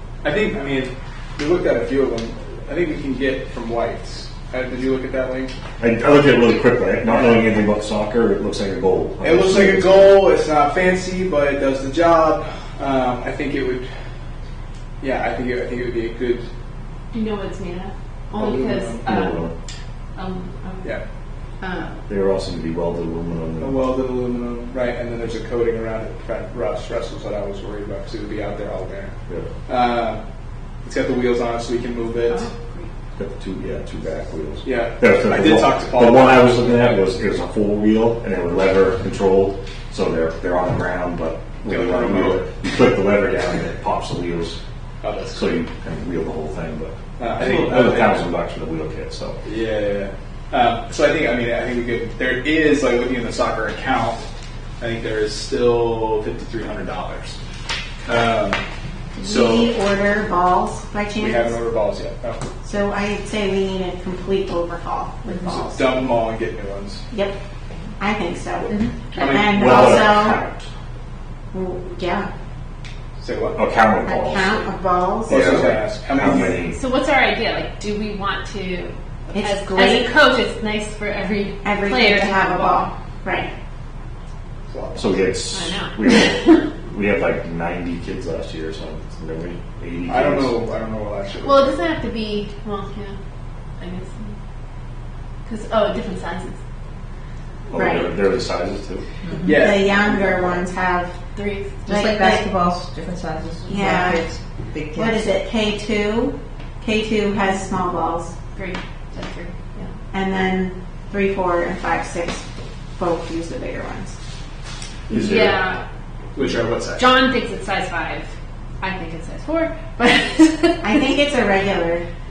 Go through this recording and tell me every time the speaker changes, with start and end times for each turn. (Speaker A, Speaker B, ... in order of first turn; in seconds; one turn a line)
Speaker A: 0.2-5.5
Speaker B: 5.8-10.3
Speaker A: 9.2-13.9
Speaker A: 15.0-16.5
Speaker C: 17.1-19.5
Speaker A: 18.4-19.0
Speaker B: 19.0-19.5
Speaker C: 20.1-21.0
Speaker C: 21.6-22.0
Speaker B: 22.1-23.8
Speaker A: 23.6-29.1
Speaker B: 29.3-29.5
Speaker A: 29.7-30.2
Speaker A: 30.8-32.5
Speaker C: 32.3-32.9
Speaker B: 33.2-44.6
Speaker A: 34.6-37.0
Speaker A: 41.7-42.4
Speaker A: 45.0-45.4
Speaker B: 45.3-49.4
Speaker A: 47.2-48.1
Speaker A: 49.4-54.3
Speaker A: 54.8-57.4
Speaker A: 58.0-58.6
Speaker D: 59.2-61.6
Speaker A: 59.3-59.6
Speaker A: 61.2-62.4
Speaker D: 62.6-66.0
Speaker A: 65.5-67.0
Speaker D: 67.1-67.3
Speaker D: 68.0-70.4
Speaker C: 68.7-68.9
Speaker A: 69.2-69.4
Speaker B: 69.4-70.7
Speaker D: 71.5-72.3
Speaker A: 73.2-73.6
Speaker B: 73.5-74.5
Speaker D: 74.0-75.7
Speaker B: 75.2-76.8
Speaker A: 75.3-76.5
Speaker C: 76.4-82.9
Speaker D: 79.3-80.1
Speaker D: 81.6-83.5
Speaker A: 84.7-85.1
Speaker B: 84.9-90.6
Speaker C: 85.5-86.6
Speaker A: 90.1-91.7
Speaker C: 91.4-93.2
Speaker C: 93.8-94.3
Speaker C: 95.4-96.6
Speaker B: 97.7-99.0
Speaker D: 97.7-98.1
Speaker E: 99.2-99.6
Speaker D: 99.4-101.2
Speaker A: 99.5-100.6
Speaker C: 101.3-101.8
Speaker D: 101.9-102.5
Speaker E: 101.9-105.3
Speaker D: 103.7-104.3
Speaker D: 104.9-108.3
Speaker C: 108.5-109.9
Speaker D: 110.1-112.4
Speaker D: 113.0-114.2
Speaker B: 115.1-115.6
Speaker C: 115.1-115.8
Speaker A: 116.3-117.0
Speaker C: 117.0-118.3
Speaker C: 118.8-121.1
Speaker D: 120.8-122.0